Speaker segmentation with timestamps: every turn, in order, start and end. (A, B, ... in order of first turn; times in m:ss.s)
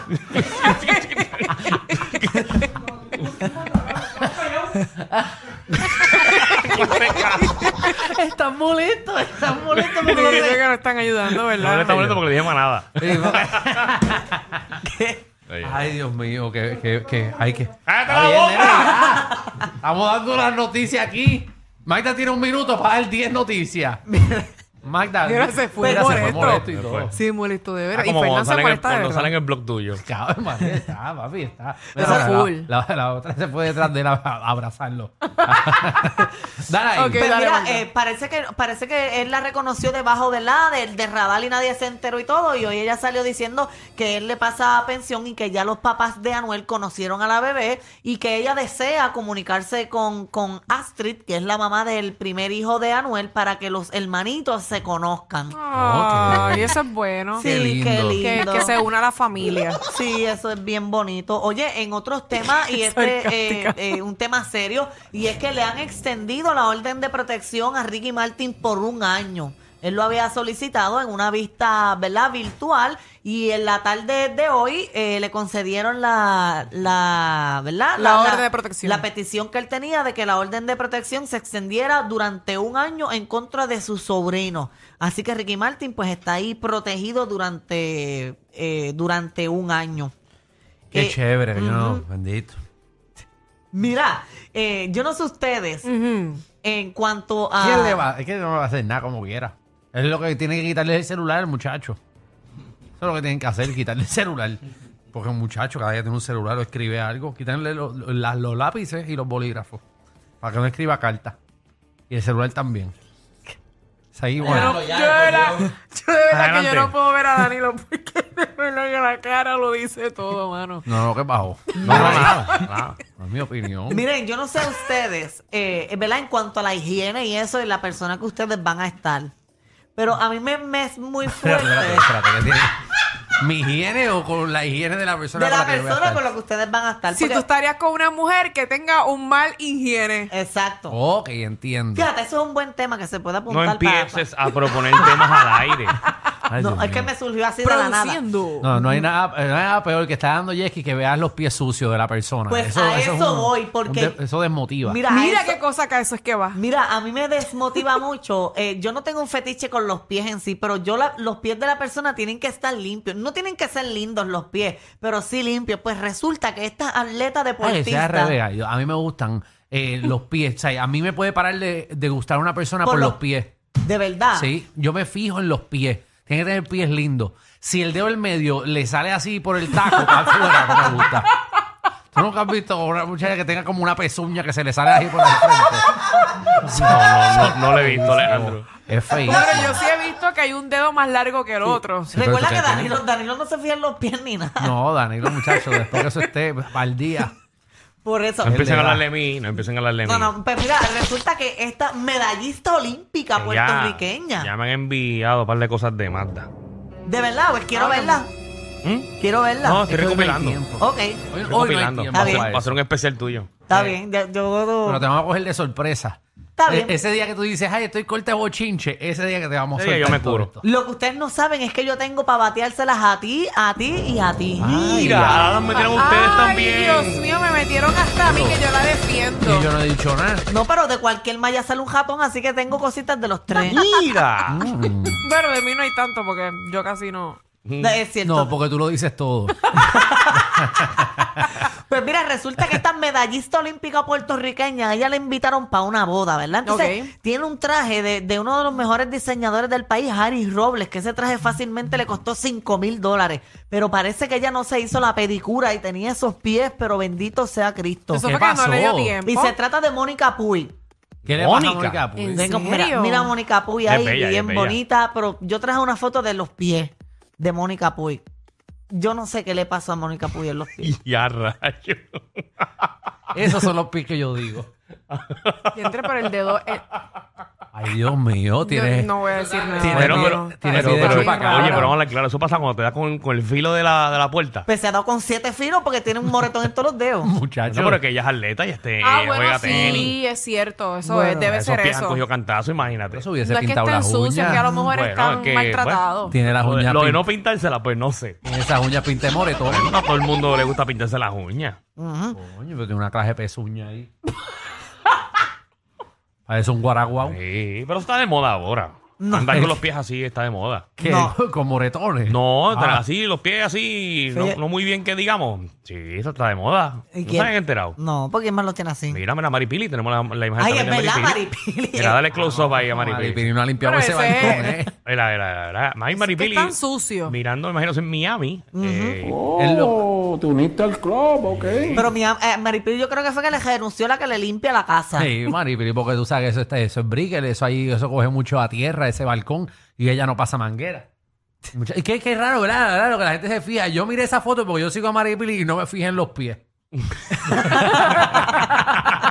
0:00.1-0:02.5 A
0:01.1-0:01.5 B
0:04.2-0:06.9 C
0:06.5-0:07.6 A
0:07.8-0:10.5 C
0:09.7-0:10.6 D
0:10.0-0:12.2 B
0:11.6-0:13.9 A
0:13.0-0:14.7 C
0:14.8-0:15.2 D
0:15.5-0:15.9 A
0:15.6-0:24.0 C
0:17.8-0:19.0 A
0:24.1-0:24.5 D
0:24.8-0:27.2 C
0:25.2-0:29.3 B
0:25.8-0:26.5 D
0:26.5-0:27.1 A
0:27.9-0:30.0 A
0:29.9-0:37.3 C
0:31.9-0:32.3 D
0:32.0-0:32.7 B
0:35.4-0:36.0 B
0:36.9-0:37.8 B
0:37.2-0:55.6 D
0:55.5-0:57.5 B
0:55.7-0:56.7 C
0:57.4-0:58.5 C
0:57.4-0:58.8 D
0:58.2-0:59.8 B
0:59.9-1:30.1 D
1:02.4-1:04.0 B
1:17.9-1:19.0 B
1:30.9-1:32.6 C
1:30.9-1:32.0 D
1:33.7-1:35.9 D
1:35.8-1:36.4 B
1:36.6-1:38.0 D
1:37.6-1:42.0 C
1:43.0-1:44.6 C
1:45.1-1:49.8 C
1:50.4-1:51.4 C
1:52.1-1:52.9 C
1:54.1-1:55.0 C
1:54.4-2:00.9 B
1:54.9-1:55.5 E
1:56.3-1:56.9 A
2:00.8-2:02.6 C
2:01.8-2:02.3 D
2:01.8-2:03.0 A
2:03.2-2:04.0 C
2:03.9-2:09.3 D
2:10.0-2:12.1 D
2:11.2-2:12.8 C
2:13.4-2:16.3 C
2:15.3-2:17.4 D
2:17.1-2:20.3 B
2:20.3-2:21.0 D
2:20.9-2:22.1 C
2:21.9-2:24.3 D
2:23.5-2:26.0 A
2:26.5-2:27.1 C
2:26.6-2:28.2 D
2:27.6-2:28.8 B
2:28.6-2:35.0 C
2:32.5-2:34.2 D
2:34.8-2:35.6 D
2:35.1-2:36.6 B
2:36.5-2:48.4 D
2:47.6-2:53.5 C
2:52.8-2:53.2 D
2:53.8-2:54.5 D
2:54.3-3:01.3 C
3:00.1-3:01.0 B
3:02.1-3:05.9 C
3:06.5-3:09.8 C
3:06.6-3:08.7 A
3:09.2-3:12.2 B
3:12.1-3:13.0 C
3:12.2-3:14.7 D
3:14.6-3:17.3 C
3:15.7-3:16.2 B
3:18.0-3:18.6 D
3:18.4-3:20.3 A
3:18.4-3:19.0 C
3:20.0-3:24.5 D
3:23.4-3:26.5 A
3:27.1-3:28.3 D
3:27.7-3:28.2 B
3:28.8-3:29.1 A
3:29.2-3:29.8 D
3:29.6-3:30.6 A
3:29.9-3:32.8 C
3:30.8-3:31.2 D
3:31.4-3:34.0 A
3:32.1-3:32.5 D
3:33.7-3:35.0 D
3:34.8-3:40.6 C
3:36.6-3:37.0 D
3:39.7-3:40.5 A
3:40.6-3:44.9 D
3:44.6-3:45.6 C
3:44.8-3:47.3 A
3:45.7-3:49.7 B
3:48.2-3:48.7 C
3:49.4-3:50.5 C
3:50.5-3:53.8 D
3:53.6-3:54.7 A
3:54.5-3:55.2 C
3:55.2-3:57.4 B
3:57.6-3:58.0 A
3:57.8-3:58.5 D
3:58.2-3:59.7 C
3:59.8-4:18.2 D
4:00.3-4:01.4 C
4:06.6-4:07.1 B
4:18.1-4:19.5 B
4:18.2-4:19.2 C
4:19.2-4:20.7 D
4:21.2-4:22.0 A
4:21.2-4:22.5 C
4:22.2-4:23.3 B
4:22.4-4:28.2 D
4:23.8-4:24.8 A
4:28.9-4:30.9 D
4:30.8-4:33.7 A
4:33.3-4:34.7 C
4:35.1-4:36.1 A
4:35.7-4:36.8 B
4:37.7-4:39.1 C
4:38.6-4:41.9 B
4:39.8-4:42.0 C
4:39.8-4:44.6 A
4:44.7-4:47.3 D
4:47.2-4:48.0 C
4:47.7-4:50.1 A
4:49.0-4:52.2 B
4:49.7-4:50.1 D
4:51.0-4:51.5 D
4:51.5-4:53.2 A
4:53.1-4:54.7 C
4:53.4-4:56.3 B
4:54.5-4:54.9 D
4:54.8-4:58.4 A
4:56.3-4:57.3 C
4:58.4-4:59.8 C
4:59.6-5:01.8 A
5:02.0-5:02.4 D
5:02.3-5:04.1 C
5:06.5-5:07.4 C
5:07.2-5:10.9 A
5:09.2-5:09.6 D
5:09.4-5:09.8 C
5:11.0-5:13.0 C
5:11.0-5:11.4 D
5:12.3-5:18.0 A
5:14.3-5:14.6 D
5:17.1-5:19.2 D
5:19.1-5:21.4 A
5:20.6-5:22.2 D
5:22.0-5:23.5 A
5:22.3-5:24.9 C
5:23.8-5:24.8 B
5:25.0-5:26.7 A
5:26.2-5:27.4 B
5:27.3-5:29.4 A
5:28.7-5:29.3 D
5:29.5-5:31.5 E
5:29.6-5:30.0 C
5:31.5-5:32.1 A
5:31.9-5:35.3 D
5:35.2-5:41.1 C
5:41.7-5:46.6 C
5:47.4-5:48.7 C